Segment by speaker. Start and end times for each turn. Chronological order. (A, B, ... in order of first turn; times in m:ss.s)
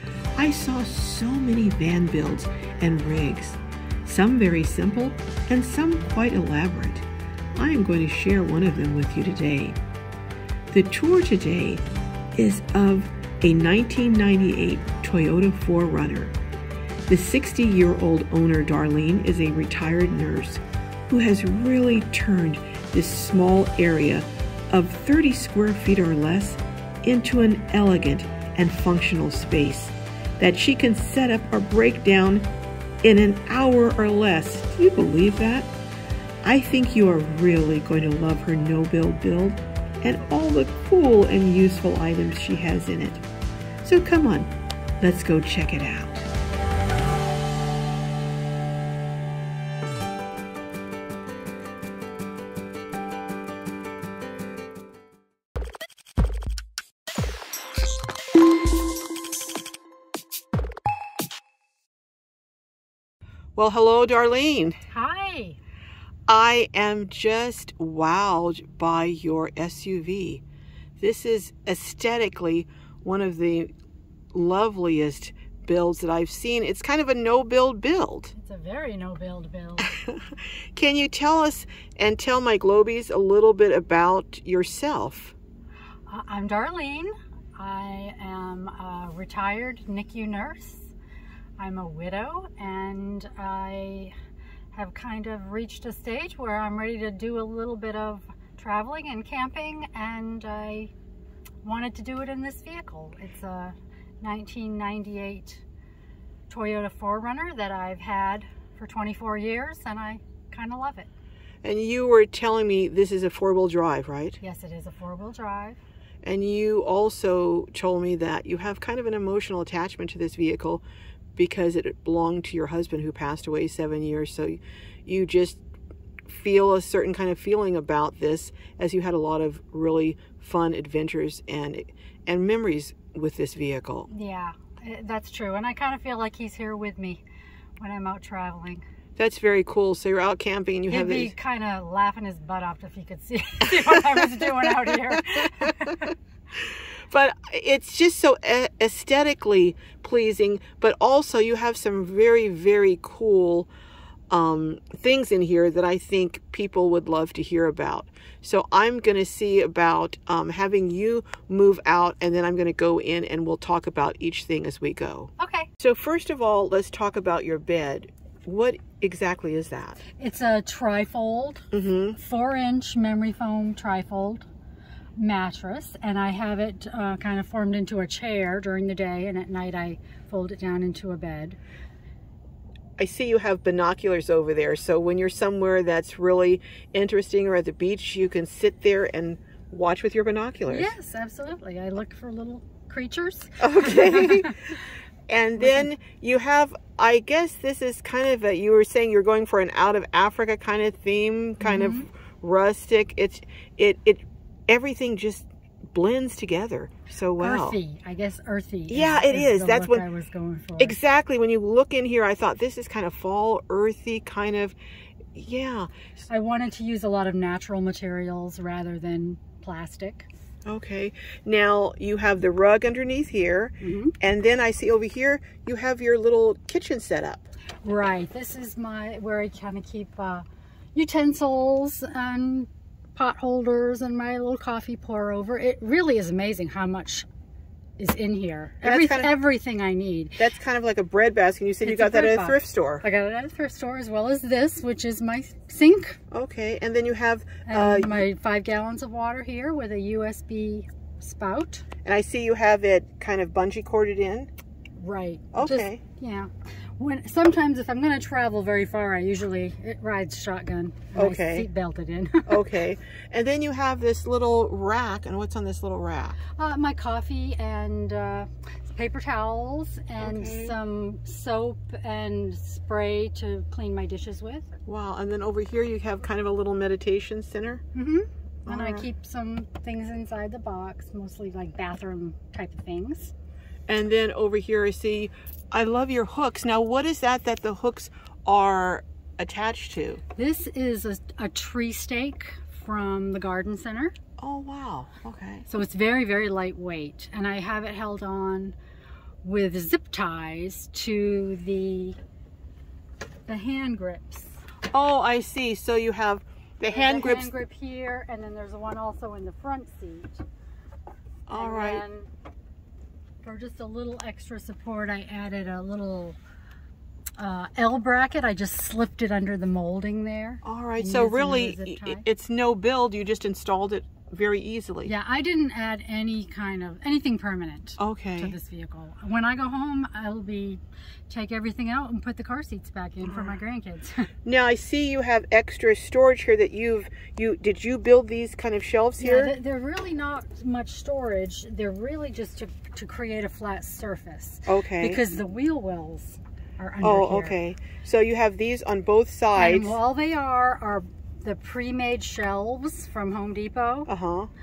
0:00.4-0:09.8 A
0:10.7-0:11.8 A
0:12.4-0:16.3 A
0:17.1-0:32.5 A
0:33.0-0:35.7 A
0:36.4-0:43.2 A
0:43.8-0:46.3 A
1:03.6-1:04.8 A
1:04.9-1:05.6 B
1:06.3-1:10.4 A
1:11.0-1:13.7 A
1:14.3-1:18.3 A
1:18.4-1:19.9 B
1:19.8-1:25.4 A
1:26.1-1:30.9 B
1:31.6-1:34.1 B
1:34.7-1:40.9 B
1:41.6-1:45.6 B
1:46.5-1:51.1 B
1:51.6-1:54.4 A
1:54.4-1:55.8 B
1:56.2-2:00.8 A
2:01.4-2:05.6 A
2:06.3-2:14.1 A
2:14.1-2:17.2 B
2:17.8-2:18.8 B
2:19.2-2:21.4 A
2:20.9-2:26.1 B
2:24.6-2:25.2 A
2:27.1-2:33.7 A
2:34.3-2:50.0 A
2:45.4-2:45.7 B
2:50.2-2:54.5 B
2:51.7-2:52.2 A
2:55.2-3:01.6 B
3:03.0-3:10.9 A
3:10.7-3:14.8 B
3:13.6-3:14.6 A
3:15.3-3:27.8 A
3:15.6-3:15.9 B
3:21.6-3:22.1 B
3:27.4-3:31.0 B
3:28.9-3:30.0 A
3:30.8-3:34.8 A
3:35.3-3:35.9 A
3:36.3-3:40.3 B
3:40.7-3:47.5 A
3:43.8-3:44.2 B
3:47.8-3:57.3 B
3:58.0-4:00.5 B
3:58.8-3:59.3 A
4:00.4-4:03.0 A
4:01.8-4:06.2 B
4:06.3-4:08.2 A
4:07.7-4:11.9 B
4:12.0-4:14.5 A
4:15.0-4:22.6 B
4:15.5-4:16.0 A
4:21.2-4:21.7 A
4:22.5-4:26.4 A
4:26.6-4:34.7 B
4:30.2-4:30.8 A
4:34.9-4:37.8 A
4:37.9-4:43.3 B
4:38.6-4:39.1 A
4:43.9-4:50.2 A
4:50.4-4:54.2 B
4:54.4-4:55.6 A
4:55.7-4:58.8 B
4:59.4-5:02.2 B
5:03.5-5:04.6 B
5:04.9-5:07.5 A
5:06.9-5:10.4 B
5:11.5-5:12.0 A
5:11.5-5:12.3 B
5:13.4-5:16.4 B
5:17.4-5:22.2 B
5:20.6-5:25.1 A
5:25.0-5:34.3 B
5:28.0-5:28.6 A
5:33.2-5:33.6 A
5:34.5-5:39.5 A
5:39.2-5:47.6 B
5:44.7-5:45.2 A
5:47.0-5:50.0 A
5:49.6-5:54.1 B
5:54.1-5:54.5 A